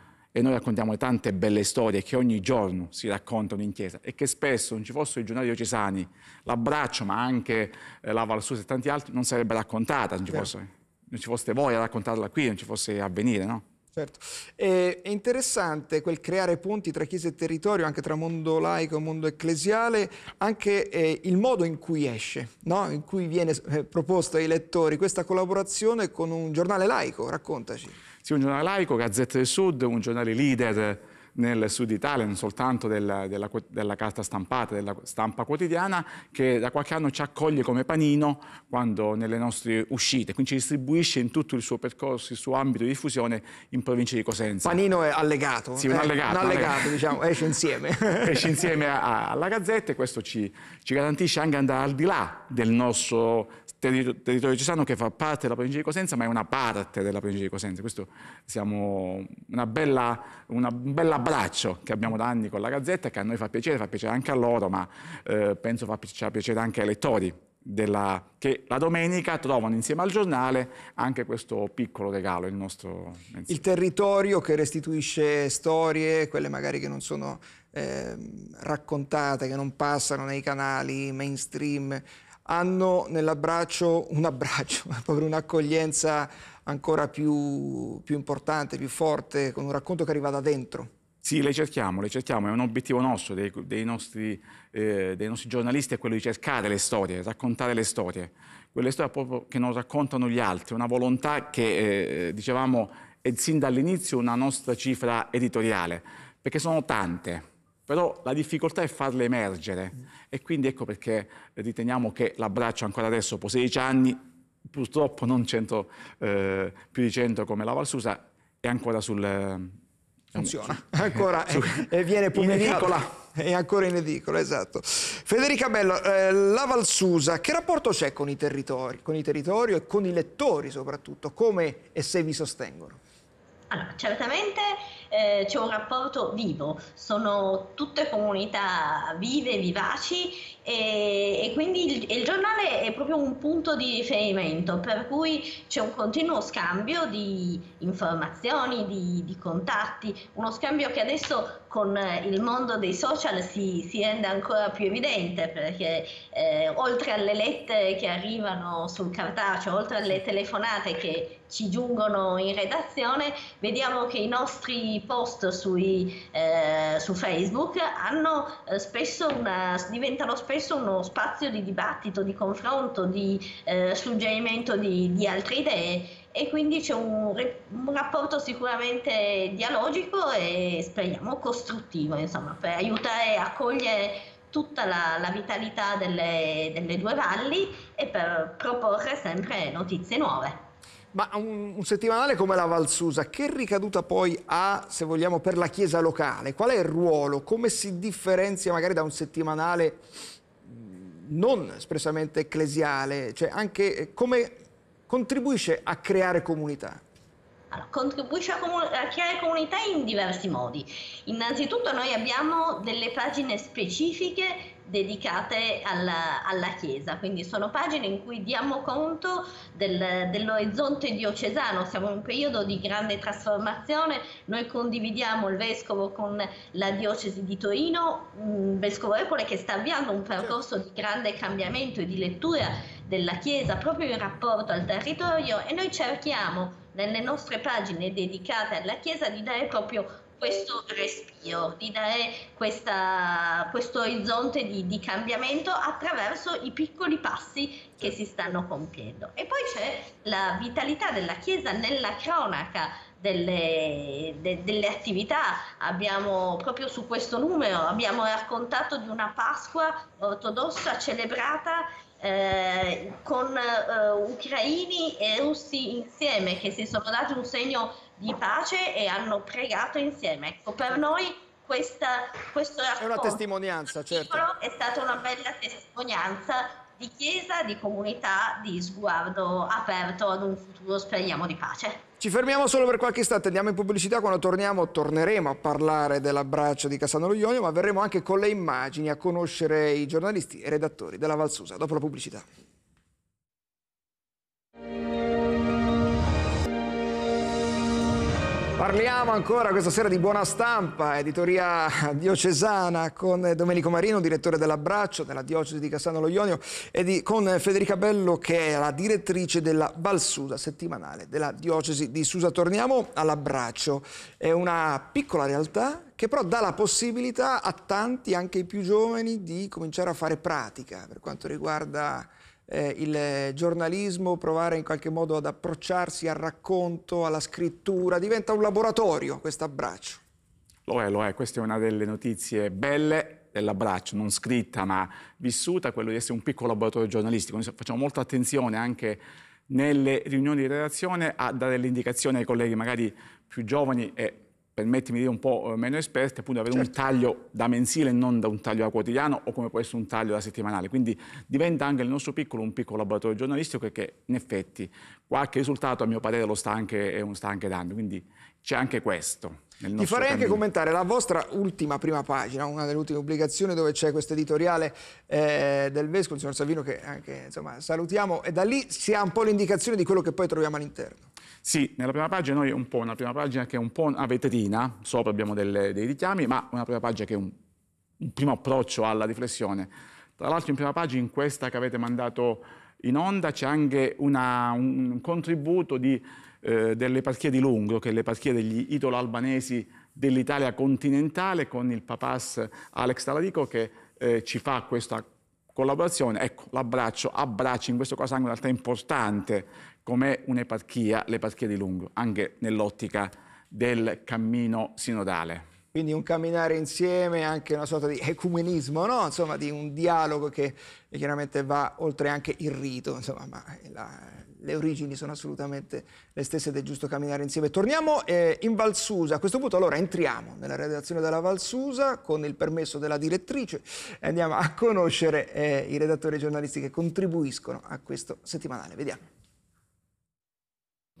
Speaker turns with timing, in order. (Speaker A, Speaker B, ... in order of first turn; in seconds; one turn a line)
Speaker A: 0.3-13.6
Speaker B: 13.9-28.0
Speaker A: 28.2-44.8
Speaker B: 44.6-48.6
Speaker A: 45.8-47.1
Speaker A: 48.2-73.6
Speaker B: 73.5-90.9
Speaker A: 91.2-119.7
Speaker A: 120.3-123.0
Speaker B: 120.3-133.0
Speaker C: 133.7-190.6
Speaker B: 191.1-200.0
Speaker B: 200.6-207.0
Speaker C: 207.7-273.4
Speaker B: 273.0-274.4
Speaker C: 274.1-282.0
Speaker B: 282.2-292.4
Speaker B: 298.8-330.2
Speaker A: 330.9-360.6
Speaker B: 360.0-371.2
Speaker A: 371.6-377.5
Speaker A: 378.2-405.6
Speaker B: 405.9-429.2